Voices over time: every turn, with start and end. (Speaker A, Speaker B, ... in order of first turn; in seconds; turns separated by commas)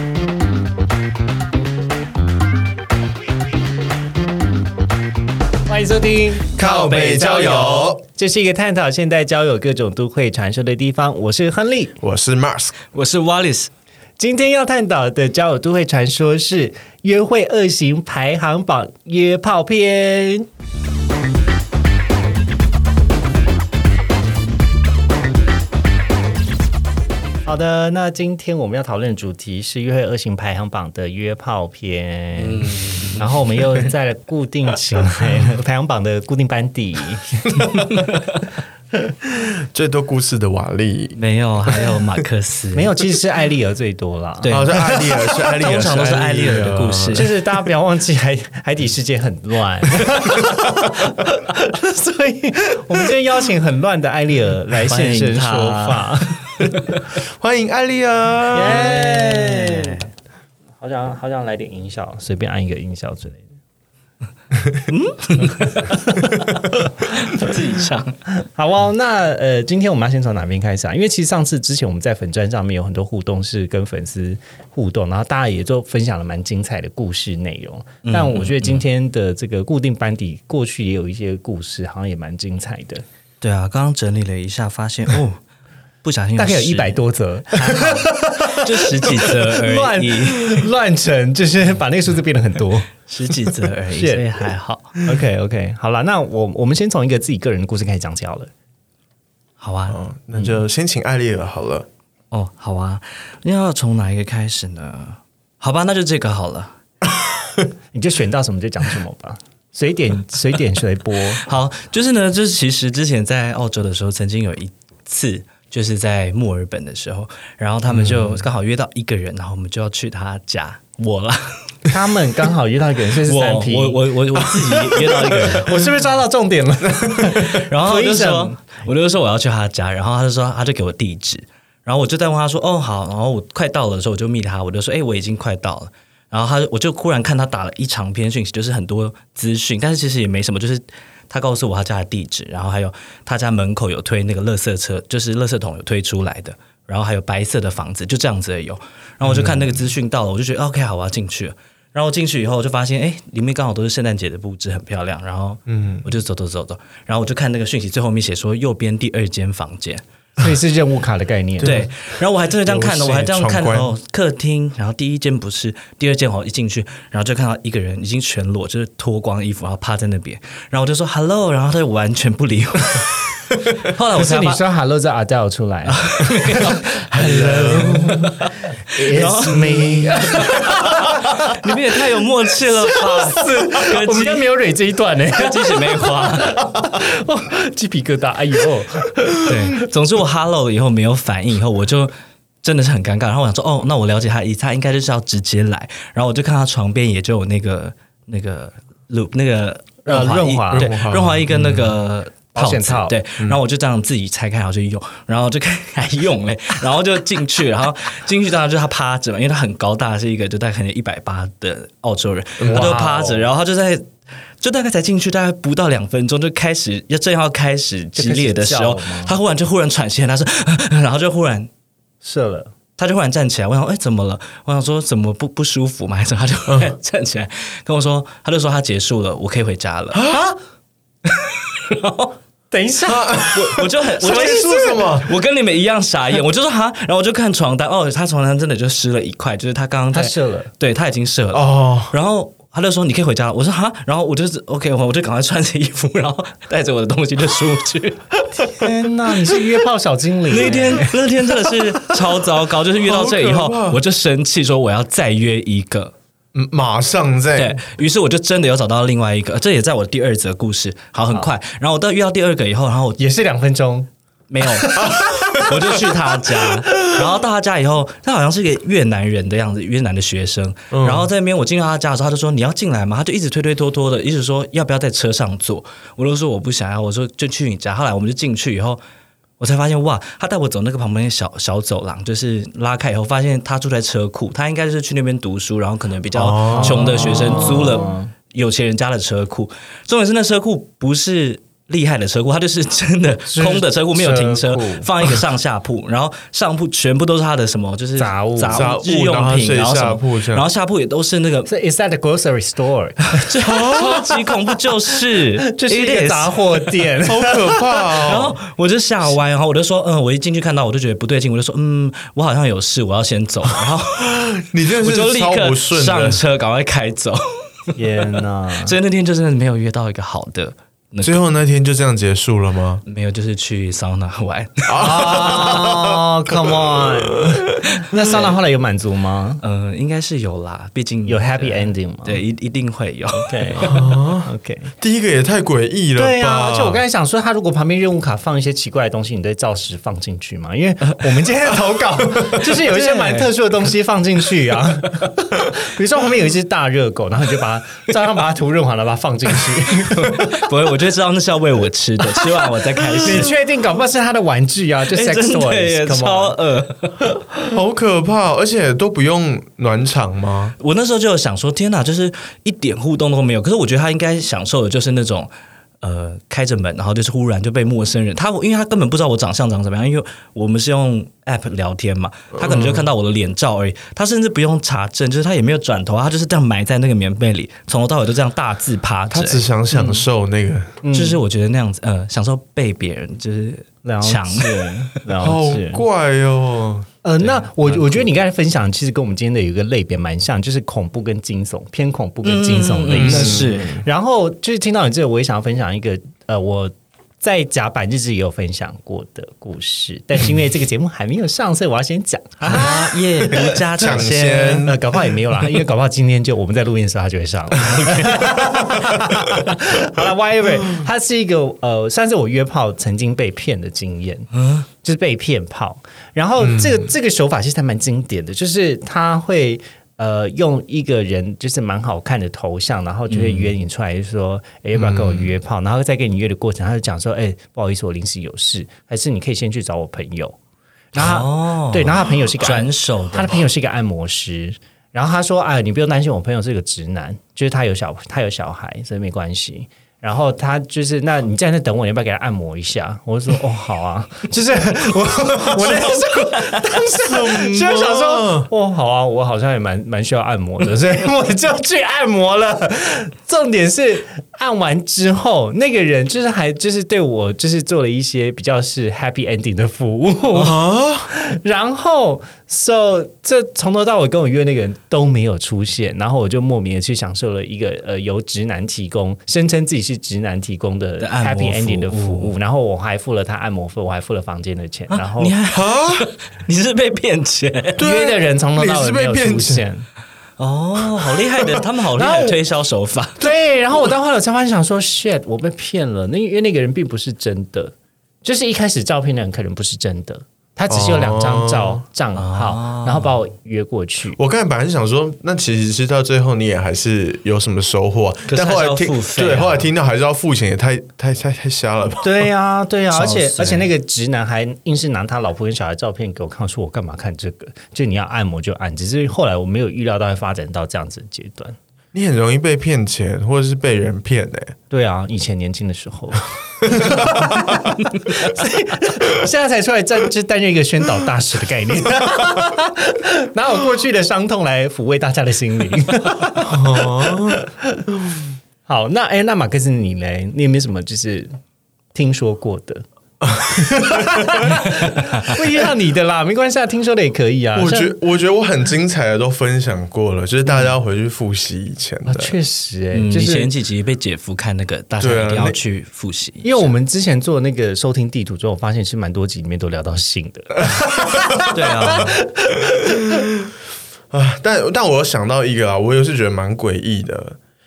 Speaker A: 5.7-12.0, Speaker B: 6.5-8.0, Speaker B: 12.0-12.8, Speaker C: 12.9-13.7, Speaker A: 14.2-20.5, Speaker A: 27.5-38.0, Speaker B: 32.6-33.2, Speaker B: 39.2-42.0, Speaker C: 41.1-42.9, Speaker A: 42.7-46.5, Speaker C: 44.4-44.7, Speaker B: 44.5-47.3, Speaker C: 45.4-47.3, Speaker A: 47.1-56.4, Speaker C: 54.8-56.1, Speaker B: 57.2-59.3, Speaker A: 58.5-60.0, Speaker C: 59.3-60.0, Speaker A: 60.8-63.4, Speaker C: 64.9-65.9, Speaker A: 65.8-66.5, Speaker C: 67.0-68.2, Speaker A: 68.4-83.0, Speaker C: 78.0-78.8, Speaker C: 83.4-85.4, Speaker C: 86.0-90.7, Speaker A: 86.4-92.9, Speaker C: 93.1-95.0, Speaker A: 93.9-94.3, Speaker A: 95.0-98.5, Speaker C: 99.6-100.0, Speaker B: 99.9-101.9, Speaker C: 102.3-106.7, Speaker B: 107.3-107.6, Speaker A: 107.9-111.4, Speaker C: 111.4-121.6, Speaker B: 117.9-118.4, Speaker A: 121.9-128.6, Speaker C: 123.3-125.8, Speaker C: 127.5-160.0, Speaker B: 149.2-149.8, Speaker B: 155.7-156.1, Speaker A: 160.4-161.8, Speaker C: 161.6-173.2, Speaker B: 161.7-161.9, Speaker B: 162.6-163.9, Speaker C: 173.8-174.6, Speaker A: 174.2-181.7, Speaker C: 175.8-184.4, Speaker B: 177.1-178.3, Speaker B: 179.7-180.6, Speaker A: 182.8-189.8, Speaker C: 185.3-186.6, Speaker C: 189.5-214.1, Speaker A: 200.1-200.9, Speaker B: 200.7-201.9, Speaker A: 202.5-203.2, Speaker B: 212.6-213.0, Speaker A: 212.7-213.5, Speaker C: 214.6-221.7, Speaker A: 218.2-219.3, Speaker A: 222.2-222.7, Speaker C: 223.0-230.2, Speaker B: 226.7-226.9, Speaker B: 230.1-230.5, Speaker C: 231.2-232.4, Speaker A: 232.7-233.6, Speaker B: 233.1-235.3, Speaker C: 233.5-248.3, Speaker A: 234.3-234.7, Speaker A: 240.1-240.7, Speaker B: 241.5-242.1, Speaker A: 248.6-251.2, Speaker C: 250.5-256.1, Speaker B: 253.0-254.0, Speaker B: 256.5-257.8, Speaker C: 257.6-263.2, Speaker A: 263.2-264.1, Speaker C: 264.5-265.0, Speaker A: 264.8-265.1, Speaker B: 265.0-265.9, Speaker C: 265.6-279.0, Speaker B: 270.9-271.3, Speaker C: 279.6-301.7, Speaker B: 286.3-287.9, Speaker A: 286.7-288.3, Speaker A: 293.5-295.1, Speaker A: 298.2-298.9, Speaker B: 298.7-300.7, Speaker A: 301.7-308.2, Speaker C: 303.3-306.8, Speaker B: 303.6-304.3, Speaker B: 307.2-308.6, Speaker C: 308.2-317.9, Speaker B: 314.2-316.4, Speaker A: 318.0-318.9, Speaker C: 318.8-321.4, Speaker B: 321.2-323.0, Speaker C: 323.1-325.0, Speaker B: 324.9-327.9, Speaker A: 325.0-329.6, Speaker C: 329.6-333.9, Speaker A: 331.3-332.4, Speaker A: 333.4-334.9, Speaker B: 333.8-337.0, Speaker A: 336.2-350.4, Speaker C: 342.7-343.5, Speaker C: 350.1-353.5, Speaker A: 353.2-356.6, Speaker C: 355.1-357.5, Speaker B: 357.7-360.8, Speaker C: 360.8-365.5, Speaker C: 366.0-379.6, Speaker B: 372.5-373.1, Speaker B: 379.3-381.0, Speaker A: 381.0-381.4, Speaker C: 381.1-385.2, Speaker A: 384.1-386.1, Speaker B: 385.4-387.1, Speaker A: 387.2-403.8, Speaker C: 387.4-388.3, Speaker C: 392.4-394.0, Speaker B: 393.2-394.0, Speaker C: 402.6-404.9, Speaker B: 403.9-405.0, Speaker A: 404.9-414.5, Speaker A: 415.0-430.6, Speaker B: 416.6-417.1, Speaker C: 423.3-423.7, Speaker A: 431.1-475.6, Speaker C: 431.1-433.6, Speaker C: 445.8-446.7, Speaker B: 447.2-448.7, Speaker B: 460.5-461.3, Speaker C: 471.2-472.5, Speaker C: 475.1-478.0, Speaker B: 475.7-476.3, Speaker B: 478.0-479.8, Speaker A: 478.0-480.1, Speaker C: 480.6-483.4, Speaker A: 482.2-482.6, Speaker A: 483.4-494.4, Speaker B: 490.9-492.0, Speaker C: 492.4-493.3, Speaker B: 494.4-502.5, Speaker C: 498.5-499.9, Speaker A: 502.2-511.8, Speaker C: 503.1-503.9, Speaker B: 512.1-514.8, Speaker A: 514.9-528.0, Speaker B: 517.0-517.7, Speaker B: 526.6-527.6, Speaker A: 528.9-531.5, Speaker A: 532.1-533.0, Speaker B: 533.4-534.5, Speaker A: 533.6-538.1, Speaker C: 535.1-535.5, Speaker B: 537.8-542.5, Speaker A: 542.3-543.7, Speaker C: 543.1-546.9, Speaker B: 545.2-545.8, Speaker A: 546.6-553.3, Speaker C: 551.7-552.4, Speaker B: 553.3-553.7, Speaker B: 554.3-557.6